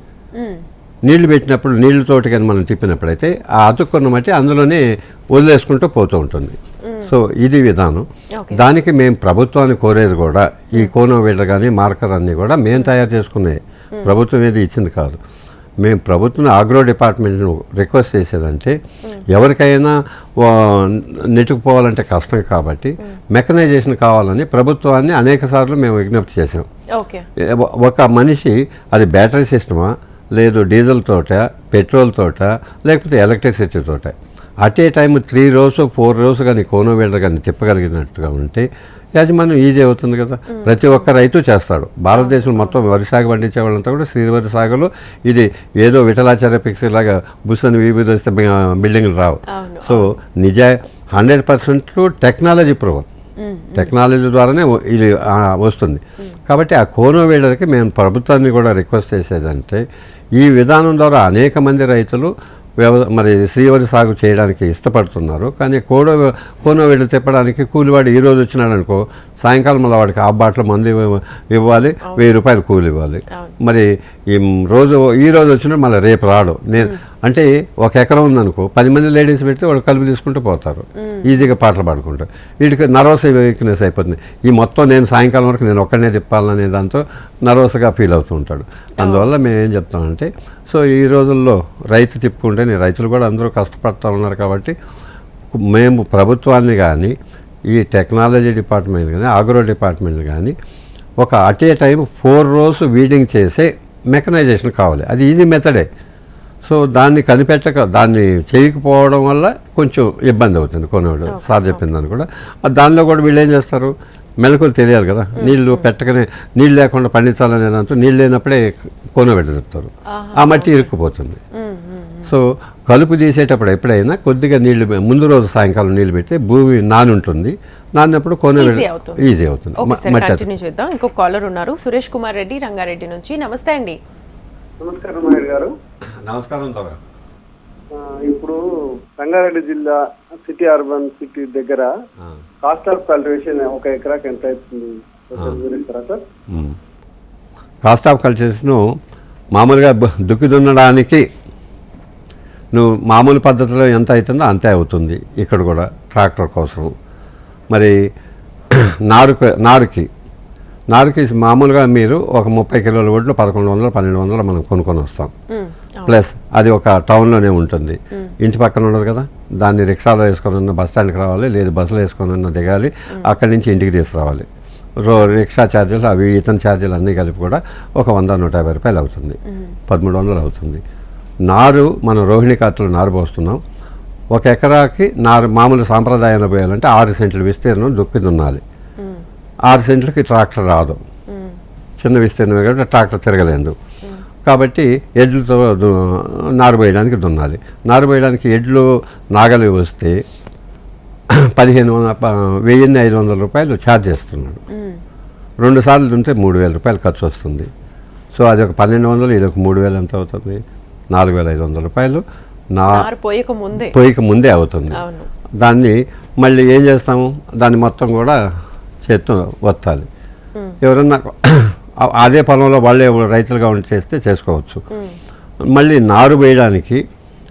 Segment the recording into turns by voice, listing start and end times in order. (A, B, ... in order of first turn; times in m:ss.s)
0:00.4-0:00.6 A
0:01.0-0:15.2 B
0:06.8-0:07.1 A
0:15.8-0:18.8 B
0:19.3-0:26.7 B
0:27.0-0:27.2 A
0:27.4-0:38.6 B
0:39.2-0:53.0 B
0:40.5-0:41.1 A
0:42.1-0:42.8 A
0:49.5-0:50.1 A
0:53.4-0:53.9 A
0:53.8-0:59.8 B
1:00.4-1:34.7 B
1:13.3-1:13.6 A
1:21.0-1:21.5 A
1:29.0-1:29.3 A
1:35.5-1:37.1 B
1:37.7-1:40.5 B
1:41.2-1:45.9 B
1:46.6-2:01.4 B
1:51.3-1:51.8 A
1:55.4-1:55.9 A
2:00.1-2:00.9 A
2:01.6-2:02.3 A
2:02.3-2:10.4 B
2:08.6-2:09.3 A
2:09.8-2:14.0 A
2:14.8-2:15.7 C
2:16.2-2:17.0 B
2:18.0-2:18.6 C
2:19.2-2:21.9 C
2:22.6-2:26.2 C
2:26.5-2:26.8 B
2:27.8-2:28.8 B
2:29.6-2:31.2 B
2:32.7-2:36.9 B
2:39.1-2:40.1 B
2:40.9-2:45.3 B
2:45.5-2:46.2 A
2:46.0-2:54.5 B
2:55.0-3:00.8 B
2:59.5-2:59.8 A
3:01.5-3:03.6 B
3:04.3-3:08.6 B
3:09.0-3:09.2 A
3:09.7-3:11.0 B
3:11.3-3:11.6 A
3:12.0-3:13.7 B
3:14.4-3:20.2 B
3:21.4-3:24.6 B
3:24.7-3:25.0 A
3:25.6-3:27.7 B
3:28.3-3:30.6 B
3:31.1-3:33.1 B
3:32.9-3:33.9 A
3:33.9-3:35.0 B
3:34.9-3:35.3 A
3:35.6-3:38.4 B
3:39.0-3:40.1 B
3:40.8-3:44.8 B
3:44.9-3:45.2 A
3:45.7-3:47.0 B